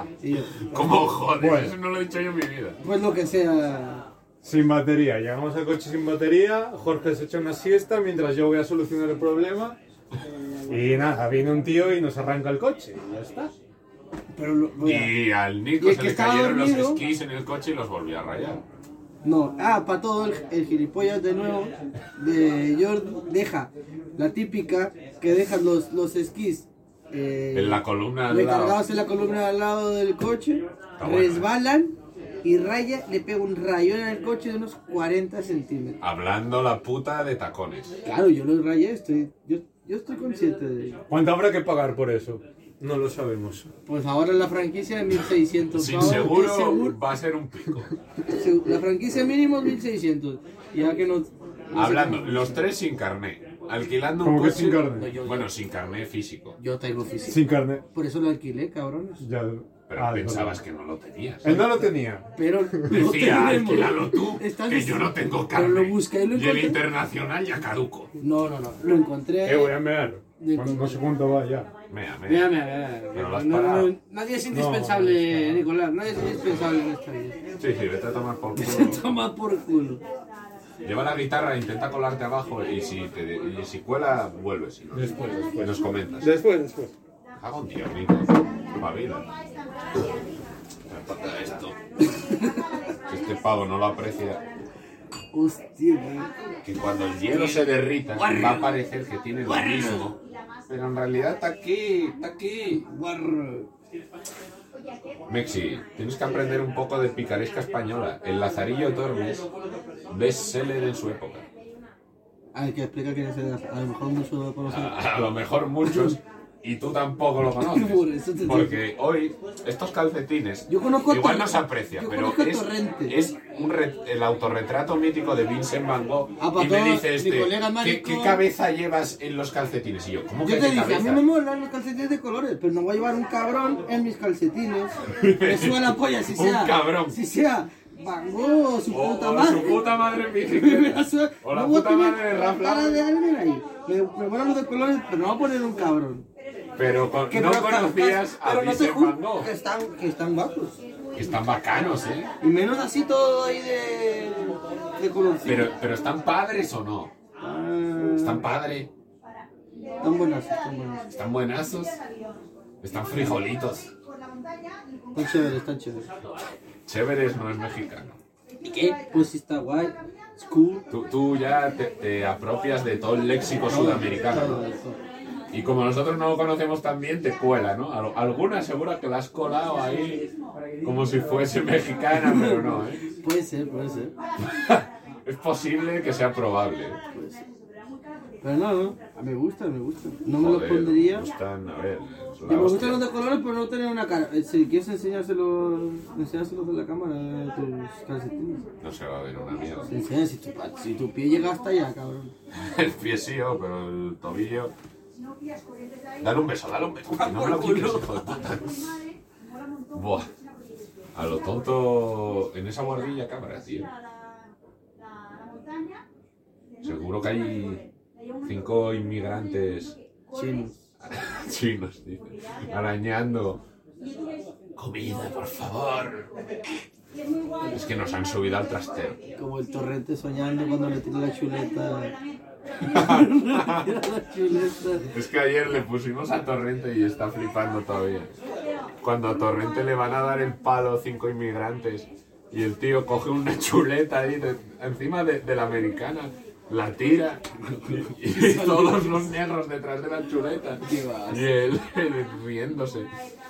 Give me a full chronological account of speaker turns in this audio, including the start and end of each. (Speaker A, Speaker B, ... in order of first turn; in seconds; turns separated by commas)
Speaker A: 0.2-1.2, Speaker B: 0.7-2.8, Speaker C: 1.4-1.7, Speaker A: 2.8-4.1, Speaker C: 4.4-9.8, Speaker C: 10.7-13.5, Speaker A: 14.3-15.2, Speaker B: 14.8-18.6, Speaker A: 15.8-17.0, Speaker A: 19.2-36.0, Speaker B: 27.5-28.8, Speaker B: 31.0-31.5, Speaker B: 36.0-37.9, Speaker A: 38.0-41.0, Speaker C: 41.1-43.7, Speaker A: 43.9-47.0, Speaker B: 45.7-47.9, Speaker A: 48.3-52.6, Speaker B: 51.7-56.6, Speaker C: 54.2-55.1, Speaker A: 54.9-55.5, Speaker A: 56.6-57.4, Speaker C: 57.3-57.8, Speaker A: 57.9-59.2, Speaker C: 59.2-60.6, Speaker B: 59.9-61.6, Speaker C: 61.4-62.3, Speaker A: 62.3-66.8, Speaker B: 62.9-68.1, Speaker A: 68.2-69.8, Speaker C: 69.4-71.7, Speaker A: 70.4-71.0, Speaker B: 71.9-72.5, Speaker A: 72.2-77.4, Speaker B: 73.1-73.9, Speaker C: 74.5-75.6, Speaker B: 77.6-79.1, Speaker A: 78.5-80.0, Speaker B: 80.8-86.3, Speaker C: 84.9-86.9, Speaker B: 87.4-89.2, Speaker B: 90.9-91.8, Speaker B: 93.1-94.4, Speaker A: 95.3-96.3, Speaker B: 96.6-102.8, Speaker A: 97.3-98.8, Speaker A: 99.5-100.1, Speaker A: 102.8-103.7, Speaker B: 105.3-109.5, Speaker B: 110.1-111.4, Speaker A: 112.5-115.0, Speaker B: 114.6-131.2, Speaker A: 115.9-116.2, Speaker A: 117.5-118.8, Speaker A: 120.7-123.2, Speaker A: 126.4-128.4, Speaker A: 130.4-146.3, Speaker B: 135.1-137.2, Speaker B: 138.9-143.0, Speaker B: 146.8-149.5, Speaker A: 147.3-150.8, Speaker B: 151.1-152.3, Speaker A: 152.4-155.7, Speaker B: 155.4-157.1, Speaker A: 157.4-158.5, Speaker B: 158.2-158.9, Speaker A: 160.0-161.1, Speaker B: 161.1-162.0, Speaker B: 162.8-163.9, Speaker A: 165.1-166.1, Speaker B: 166.8-168.2, Speaker A: 168.6-170.8, Speaker B: 170.9-174.6, Speaker A: 173.6-175.0, Speaker B: 175.5-180.3, Speaker B: 180.8-183.1, Speaker A: 182.2-184.1, Speaker B: 184.4-187.0, Speaker A: 187.1-187.4, Speaker A: 188.4-191.2, Speaker B: 190.4-193.0, Speaker A: 192.4-198.7, Speaker B: 198.8-199.9, Speaker A: 199.9-202.3, Speaker B: 202.5-204.7, Speaker B: 206.2-208.8, Speaker A: 207.1-208.3, Speaker B: 209.9-210.3, Speaker B: 211.1-213.9, Speaker B: 216.8-217.8, Speaker B: 218.4-219.9, Speaker A: 220.3-220.7, Speaker B: 221.0-223.6, Speaker B: 224.8-226.3, Speaker B: 227.7-229.2, Speaker A: 229.3-232.1, Speaker A: 232.8-235.1, Speaker B: 232.9-233.9, Speaker B: 235.1-238.3, Speaker B: 239.0-253.1, Speaker A: 247.8-249.3, Speaker A: 250.8-251.5